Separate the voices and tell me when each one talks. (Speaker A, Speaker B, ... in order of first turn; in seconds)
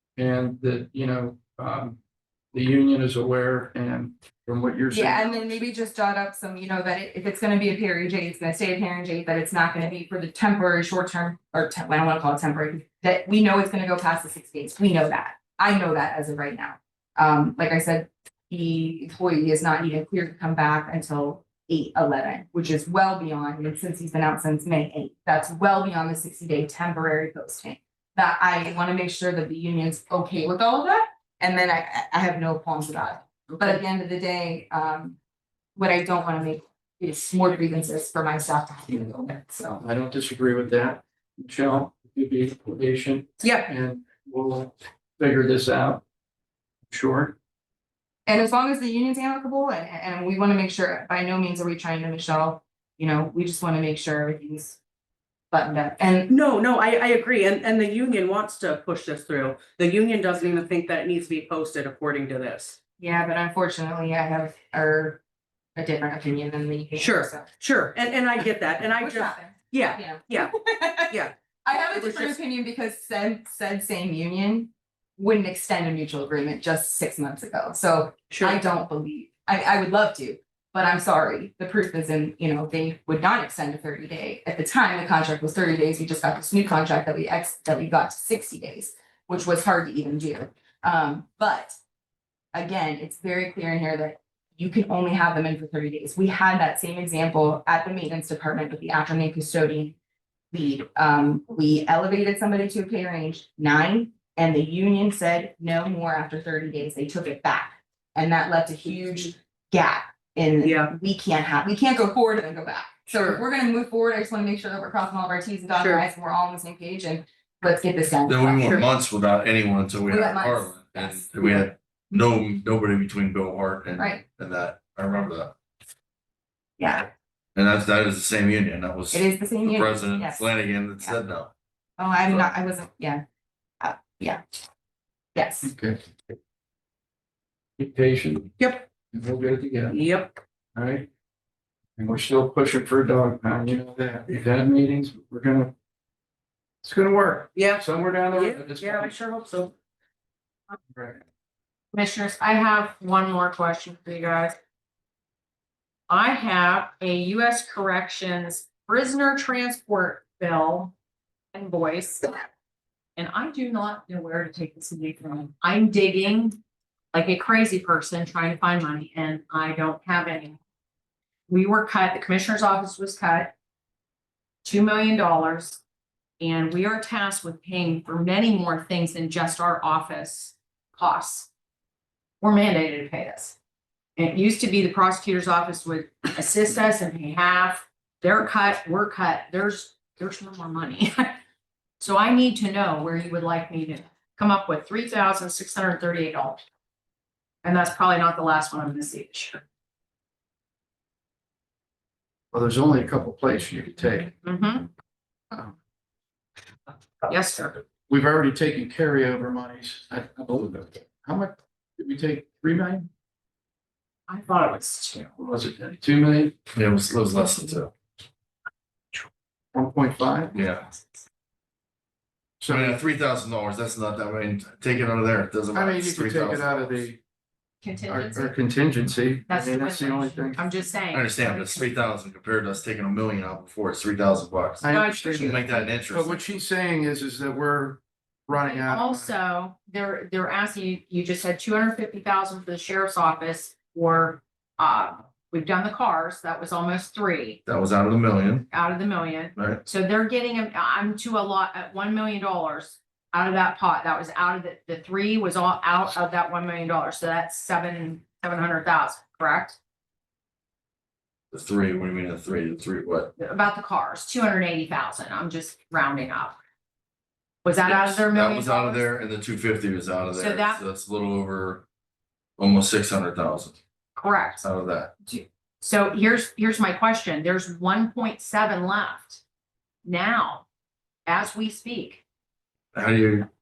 Speaker A: 0.1-2.0, 2.5-5.7, 39.8-46.0, 46.9-47.4, 135.6-136.0, 137.8-138.5, 139.1-139.9, 140.8-141.1, 142.0-145.7, 146.8-149.1, 150.9-151.2, 202.5-204.3, 208.1-213.1, 215.4-216.5, 219.7-220.6, 222.6-223.0, 225.7-227.2, 228.1-230.6, 234.8-239.3
Speaker B: 4.9-35.2, 35.8-39.8, 48.2-54.8, 55.5-56.3, 63.0-65.2, 65.8-67.5, 69.0-91.8, 92.5-100.0, 100.5-118.8, 120.1-121.7, 124.0-124.2, 126.8-127.1, 129.1-131.2, 132.0-133.2, 133.8-134.4, 135.3-135.7
Speaker C: 43.4-43.7, 56.3-62.8, 67.0-70.5, 71.1-71.3, 71.9-72.4, 78.3-78.6, 110.6-110.9, 113.1-113.4, 115.7-116.0, 138.6-138.9, 139.9-140.4, 147.5-149.7
Speaker D: 118.3-125.5, 127.5-131.5, 216.7-217.9, 220.5-220.9, 222.7-226.9, 231.1-234.8, 235.4-236.3, 247.7-248.7, 249.6-249.8, 261.5-263.3, 267.9-271.8, 272.6-273.8, 274.6-275.1, 282.9-283.5
Speaker E: 151.9-154.6, 156.1-160.9, 161.5-162.5, 163.2-166.6, 167.1-170.6, 171.5-173.5, 174.6-175.8, 176.4-181.5, 182.4-183.6, 184.2-191.4, 192.0-196.7, 197.6-199.6, 204.4-204.9, 207.3-207.8, 214.3-215.3, 227.8-228.5, 229.5-231.9, 234.8-236.1, 238.5-247.6, 248.7-259.8, 263.4-266.6, 267.6-269.1, 270.3-270.8, 274.1-274.6, 275.3-279.4, 280.0-280.6, 281.2-282.2